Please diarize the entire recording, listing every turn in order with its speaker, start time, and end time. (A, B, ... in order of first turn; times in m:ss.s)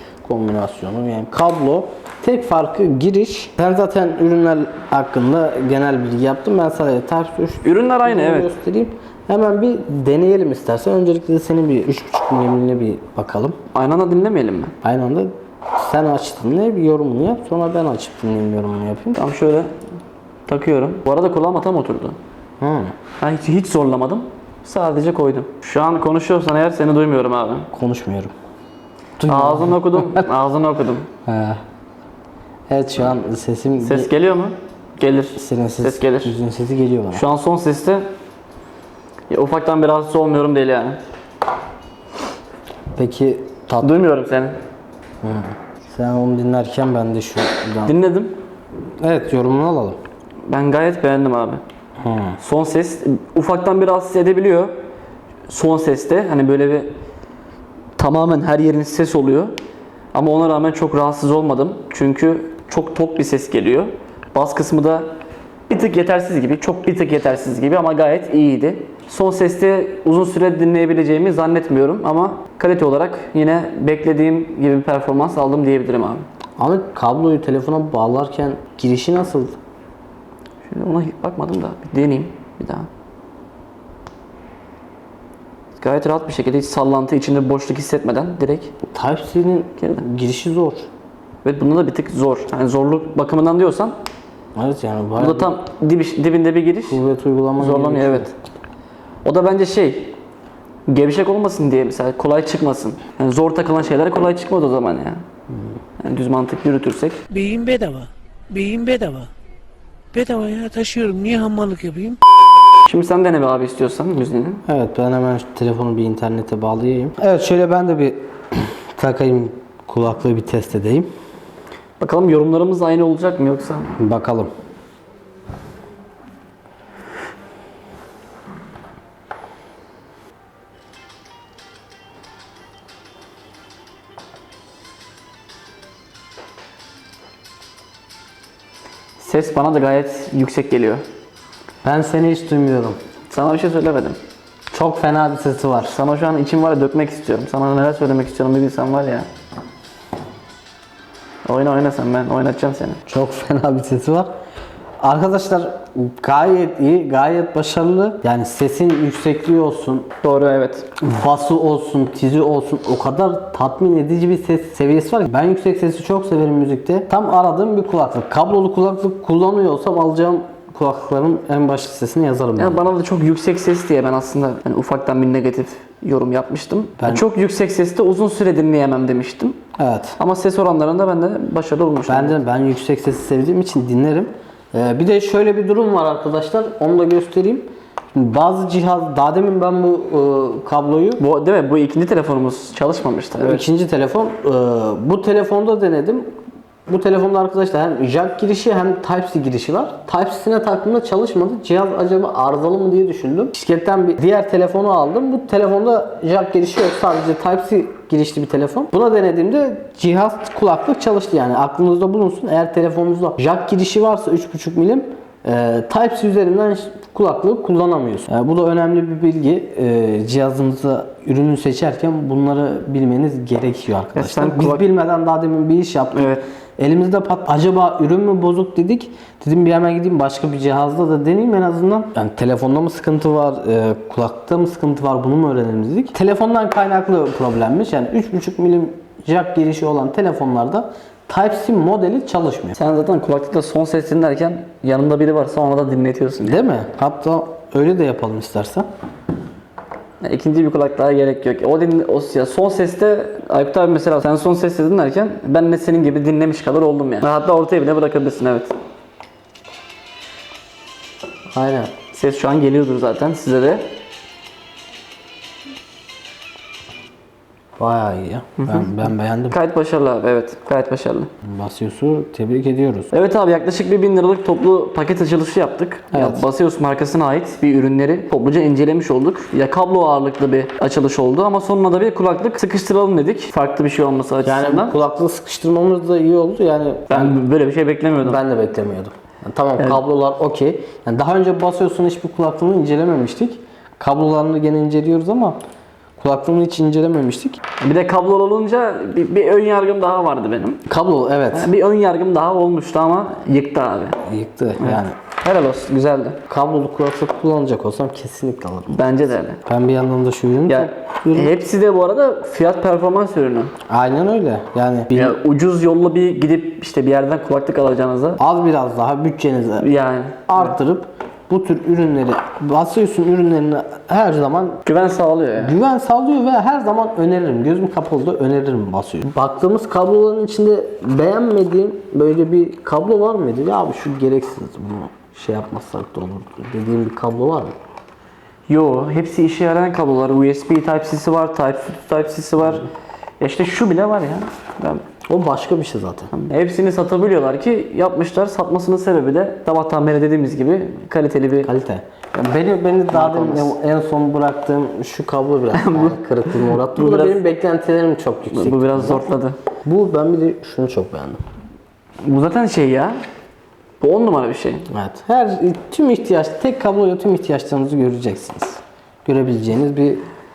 0:00.2-0:13.6 A
0:07.6-0:08.5 B
0:13.7-0:14.7 B
0:14.8-0:19.2 A
0:19.1-0:19.7 B
0:20.5-0:22.2 B
0:22.6-0:22.9 A
0:23.2-0:27.7 B
0:27.7-0:28.3 A
0:29.2-0:30.3 A
0:29.3-0:31.1 B
0:31.2-0:31.6 A
0:32.7-0:34.1 A
0:33.8-0:36.3 B
0:35.4-0:37.2 A
0:37.1-0:38.1 B
0:39.3-0:41.0 B
0:42.9-0:43.9 A
0:43.8-0:44.6 B
0:45.2-0:47.9 A
0:47.8-0:48.3 B
0:49.0-0:50.0 A
0:50.5-0:51.6 B
0:52.0-0:52.4 A
0:52.4-0:54.7 B
0:55.5-0:56.9 B
0:58.0-0:59.5 B
1:00.1-1:05.1 B
1:05.7-1:16.2 B
1:16.6-1:19.6 A
1:20.7-1:22.9 B
1:25.8-1:28.7 B
1:28.9-1:30.9 A
1:31.4-1:33.9 B
1:34.6-1:35.5 A
1:35.2-1:37.0 B
1:36.9-1:38.3 A
1:37.6-1:38.3 B
1:39.2-1:40.2 B
1:40.9-1:45.2 B
1:45.5-1:45.8 A
1:46.0-1:47.2 B
1:47.3-1:49.3 C
1:50.1-1:52.2 C
1:52.8-1:54.6 B
1:54.7-2:01.1 A
2:02.0-2:04.0 B
2:04.0-2:04.5 A
2:19.2-2:21.0 B
2:21.8-2:23.0 A
2:23.3-2:24.2 B
2:24.7-2:26.0 A
2:25.9-2:29.3 B
2:31.4-2:33.0 B
2:33.1-2:34.3 A
2:35.0-2:40.1 A
2:40.2-2:40.9 B
2:41.0-2:52.8 A
2:52.6-2:59.6 B
2:57.0-2:57.2 A
2:59.8-3:00.2 A
3:00.2-3:02.4 B
3:02.1-3:11.2 A
3:11.2-3:13.6 B
3:13.4-3:16.3 A
3:16.9-4:02.8 A
3:44.1-3:44.8 B
3:46.1-3:46.4 B
4:02.8-4:06.6 B
4:06.4-4:08.9 A
4:10.2-4:18.8 B
4:21.5-4:21.9 A
4:22.1-4:23.9 B
4:27.8-4:29.6 A
4:28.6-4:28.9 B
4:29.5-4:31.3 B
4:31.4-4:33.1 A
4:33.1-4:44.9 B
4:36.1-4:36.4 A
4:44.4-4:47.4 A
4:47.1-4:48.4 B
4:48.2-4:55.6 A
4:56.2-4:57.6 A
4:57.8-5:00.8 B
5:00.9-5:01.7 A
5:01.5-5:04.2 B
5:04.2-5:05.2 A
5:04.8-5:06.4 B
5:06.5-5:09.1 A
5:08.9-5:09.6 B
5:09.6-5:11.5 A
5:10.7-5:13.7 B
5:13.9-5:15.4 A
5:15.1-5:18.4 B
5:18.4-5:19.9 A
5:19.8-5:20.7 B
5:20.5-5:24.8 A
5:24.8-5:25.8 B
5:25.6-5:37.7 A
5:38.7-5:42.8 B
5:43.4-5:45.0 B
5:45.3-5:46.3 A
5:46.3-5:51.7 B
5:51.6-5:59.2 A
5:53.1-5:53.7 B
5:55.7-5:57.4 B
5:58.5-5:59.6 B
5:59.8-6:01.4 A
6:02.2-6:03.2 B
6:04.0-6:04.9 B
6:04.9-6:10.2 A